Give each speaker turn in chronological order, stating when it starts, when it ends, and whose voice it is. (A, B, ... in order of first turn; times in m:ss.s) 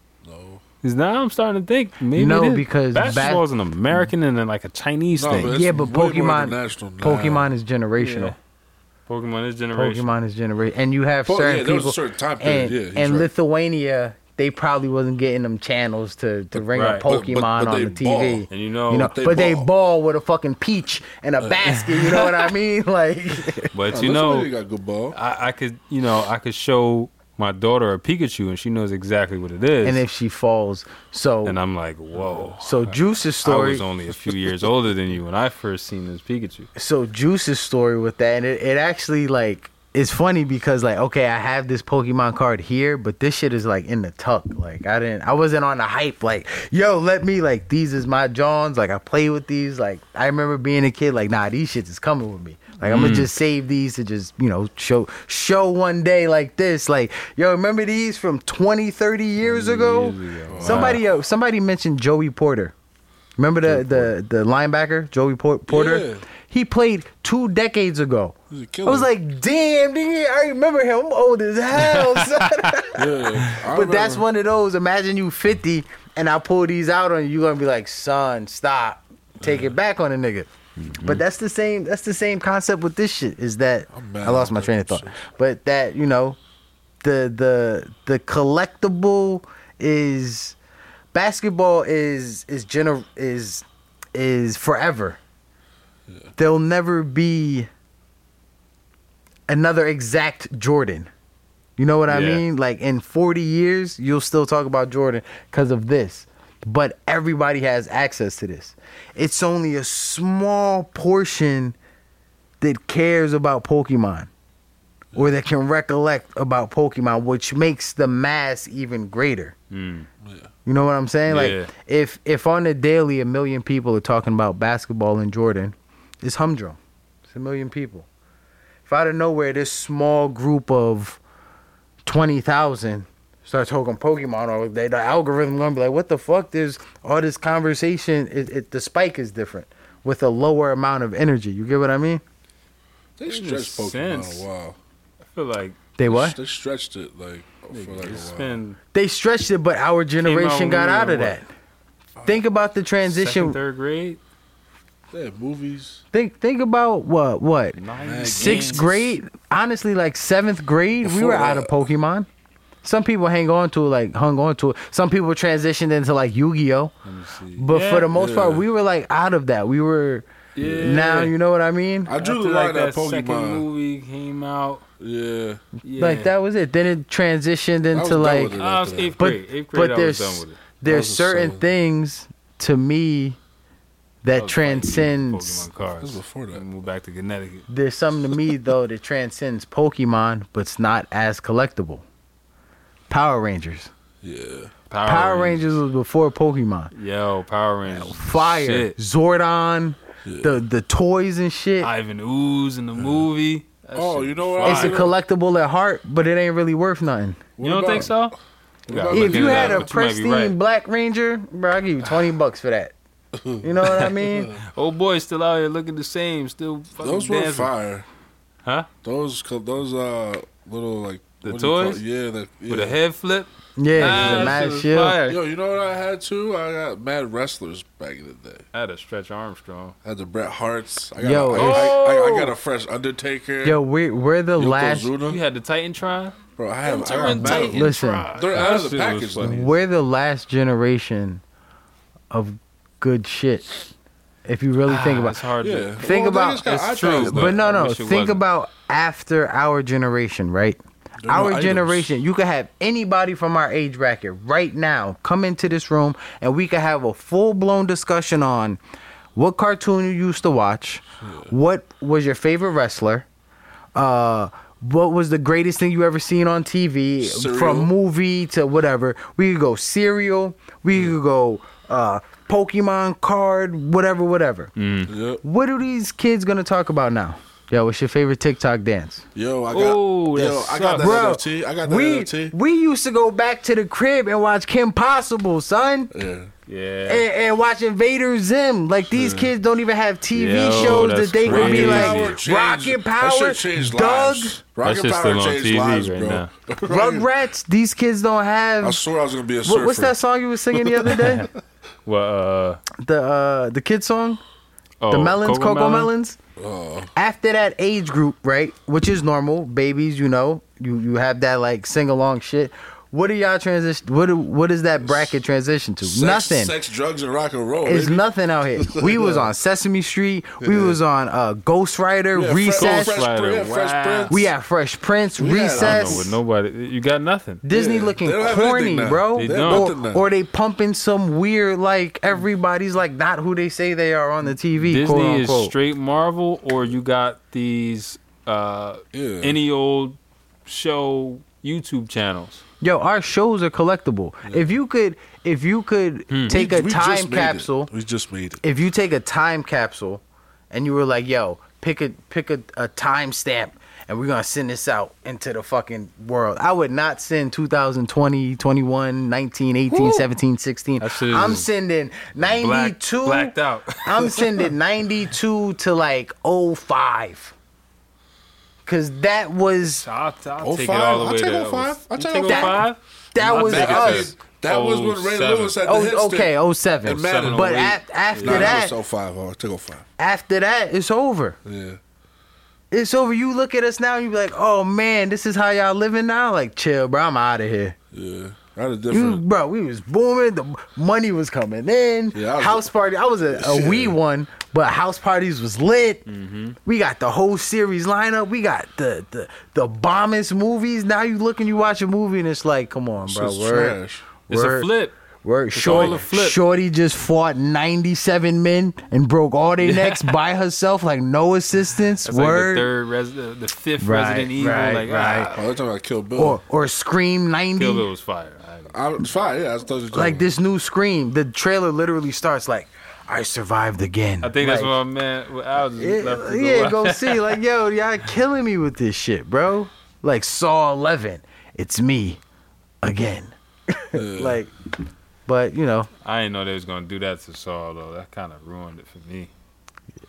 0:00.2-0:00.6 A
0:00.8-0:05.5 B
0:02.1-0:03.4 C
0:05.1-0:07.5 A
0:05.3-0:08.4 C
0:08.0-0:08.4 B
0:09.1-0:10.1 B
0:09.7-0:23.7 C
0:11.2-0:13.3 A
0:16.5-0:18.5 A
0:16.7-0:17.1 B
0:18.5-0:19.1 B
0:19.1-0:19.7 A
0:21.7-0:22.5 B
0:23.7-0:24.5 B
0:23.9-0:25.2 A
0:25.1-0:30.0 B
0:29.8-0:31.6 C
0:31.4-0:36.7 B
0:32.6-0:33.9 C
0:36.7-1:02.7 C
0:52.8-0:53.3 B
0:59.4-1:01.0 B
1:00.5-1:01.0 A
1:03.4-1:20.5 C
1:03.7-1:04.1 A
1:05.7-1:06.2 A
1:08.5-1:09.1 A
1:11.8-1:12.4 B
1:12.9-1:14.2 A
1:19.4-1:19.7 A
1:20.8-1:21.2 B
1:21.0-1:26.4 C
1:23.9-1:25.2 A
1:27.0-1:30.6 C
1:31.1-1:35.2 C
1:36.4-1:37.7 C
1:39.5-1:41.1 C
1:41.8-1:51.8 C
1:42.1-1:42.4 B
1:52.6-1:54.3 C
1:55.1-1:59.5 C
1:59.7-2:00.1 B
2:00.2-2:00.5 A
2:00.6-2:08.0 C
2:01.3-2:01.7 B
2:08.9-2:11.2 C
2:12.0-2:22.2 C
2:23.2-2:24.8 A
2:23.2-2:24.4 B
2:25.2-2:25.8 B
2:26.0-2:26.4 C
2:26.0-2:28.6 A
2:27.7-2:28.8 B
2:28.9-2:31.5 C
2:30.2-2:31.4 B
2:32.2-2:32.4 A
2:32.2-2:33.6 C
2:33.0-2:34.2 B
2:35.1-2:36.0 A
2:36.1-2:42.3 C
2:37.7-2:38.8 B
2:38.0-2:39.1 A
2:41.0-2:41.8 A
2:42.8-2:46.9 C
2:47.0-2:48.1 B
2:47.6-2:52.1 C
2:48.1-2:48.6 A
2:50.6-2:51.3 B
2:52.0-2:53.6 A
2:52.2-2:54.8 B
2:55.0-2:55.6 A
2:55.8-2:56.3 B
2:56.0-2:58.6 C
2:57.9-2:59.2 A
2:58.6-3:00.6 B
2:59.2-3:03.4 C
3:00.8-3:01.6 A
3:04.2-3:05.7 C
3:04.4-3:07.7 B
3:06.0-3:06.6 A
3:07.7-3:12.0 C
3:13.1-3:13.9 C
3:14.2-3:14.7 A
3:14.9-3:15.6 B
3:15.0-3:16.9 C
3:16.9-3:19.0 B
3:17.8-3:21.9 C
3:20.2-3:20.6 A
3:21.8-3:25.0 B
3:23.0-3:23.2 A
3:23.9-3:25.1 A
3:24.6-3:27.4 C
3:27.6-3:28.2 A
3:27.6-3:28.3 B
3:28.9-3:30.5 B
3:28.9-3:29.9 A
3:29.1-3:32.9 C
3:33.3-3:34.6 A
3:33.6-3:34.5 C
3:33.8-3:37.7 B
3:37.0-3:38.0 A
3:39.0-3:43.0 A
3:41.4-3:42.0 B
3:42.7-3:45.4 B
3:43.8-3:45.2 C
3:44.0-3:48.6 A
3:48.7-3:50.0 B
3:50.0-3:53.8 A
3:51.2-3:52.1 C
3:51.5-3:52.5 B
3:53.6-3:55.1 C
3:54.6-3:55.4 A
3:55.2-3:59.7 B
3:56.6-3:59.6 A
3:57.2-3:58.3 C
3:59.4-4:01.4 C
4:02.3-4:03.8 C
4:04.4-4:05.4 C
4:04.8-4:05.9 B
4:05.6-4:07.6 A
4:06.0-4:18.8 C
4:06.6-4:08.4 B
4:11.2-4:12.1 A
4:19.4-4:23.2 C
4:21.2-4:21.5 A
4:23.9-4:34.7 C
4:27.2-4:27.9 A
4:34.8-4:35.1 B
4:35.1-4:35.4 A
4:35.4-4:39.2 C
4:39.3-4:42.5 A
4:39.7-4:41.2 B
4:41.0-4:46.1 C
4:46.1-4:46.5 A
4:46.7-4:47.2 B
4:47.1-4:54.6 C
4:49.1-4:49.5 A
4:50.3-4:52.4 B
4:50.7-4:57.3 A
4:54.8-4:56.5 B
4:56.9-4:59.0 C
4:58.8-5:00.2 A
4:59.6-5:01.5 C
5:00.7-5:01.5 A
5:02.0-5:02.8 B
5:03.0-5:04.4 C
5:05.0-5:06.1 B
5:05.1-5:06.4 C
5:06.6-5:07.1 A
5:07.1-5:16.7 C
5:15.0-5:15.3 A
5:16.0-5:18.2 A
5:17.8-5:23.2 C
5:18.8-5:19.5 A
5:20.6-5:21.0 A
5:22.3-5:24.5 A
5:22.8-5:24.5 B
5:24.3-5:26.4 C
5:25.4-5:26.3 A
5:25.8-5:27.6 B
5:27.6-5:35.7 C
5:27.7-5:30.3 A
5:29.3-5:29.9 B
5:34.8-5:42.6 B
5:39.1-5:39.6 A
5:42.8-5:47.9 C
5:46.3-5:46.6 B
5:46.5-5:48.6 A
5:48.6-6:07.5 C
6:01.0-6:01.7 B
6:02.4-6:04.7 B
6:08.8-6:10.0 C
6:09.9-6:15.8 B
6:10.6-6:20.0 A
6:12.4-6:12.8 C
6:13.3-6:14.3 C
6:15.8-6:19.0 C
6:17.2-6:18.8 B
6:20.2-6:21.6 C
6:21.6-6:22.0 A
6:22.9-6:28.0 C
6:28.1-6:29.4 A
6:29.1-6:36.2 C
6:32.3-6:32.8 A
6:33.5-6:34.2 A
6:36.3-6:36.8 B
6:36.8-6:44.0 C
6:43.2-6:44.3 A
6:44.5-6:45.1 B
6:44.5-6:52.9 C
6:45.7-6:46.6 B
6:45.8-6:46.2 A
6:49.8-6:50.4 B
6:52.2-6:55.7 B
6:54.0-6:55.5 C
6:55.5-6:56.6 A
6:56.4-6:58.0 C
6:57.8-6:58.9 B
6:58.9-7:00.5 A
7:00.1-7:04.9 C
7:04.4-7:07.5 B
7:06.0-7:12.4 C
7:13.0-7:14.7 C
7:14.1-7:14.6 A
7:15.4-7:16.1 C
7:16.2-7:19.5 B